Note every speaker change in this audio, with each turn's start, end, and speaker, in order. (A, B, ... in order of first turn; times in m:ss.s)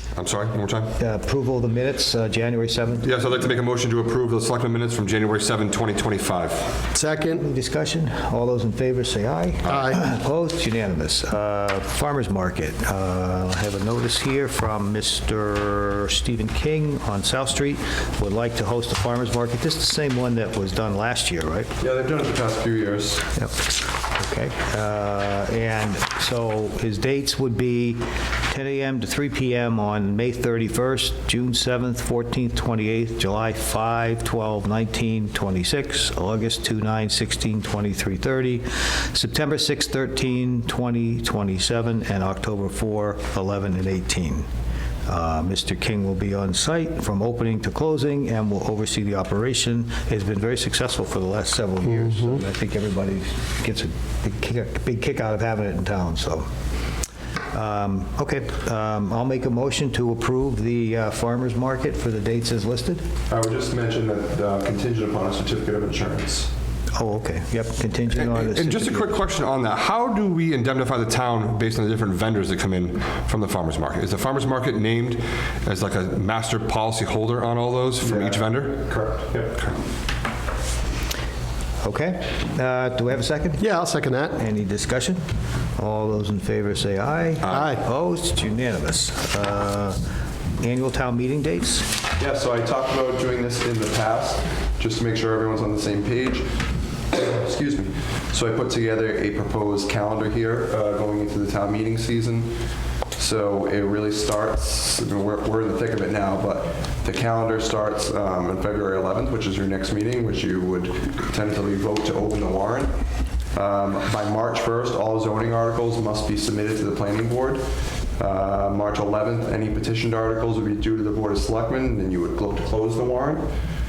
0:00.2-0:00.9 A
0:01.0-0:03.1 B
0:03.0-0:06.8 A
0:06.9-0:07.4 C
0:07.3-0:21.7 B
0:09.7-0:10.0 C
0:21.8-0:23.3 D
0:23.4-0:44.4 B
0:45.1-0:56.5 B
0:57.5-1:03.0 B
1:03.3-1:06.5 D
1:06.9-1:09.2 B
1:08.1-1:18.8 A
1:18.0-1:19.6 D
1:21.8-1:23.6 B
1:23.6-1:24.4 C
1:24.3-1:25.2 B
1:25.8-1:30.0 B
1:27.4-1:27.7 A
1:27.5-1:27.8 C
1:30.6-1:31.9 B
1:32.2-1:36.5 D
1:37.1-1:42.5 D
1:43.1-1:53.0 D
1:53.5-2:03.5 D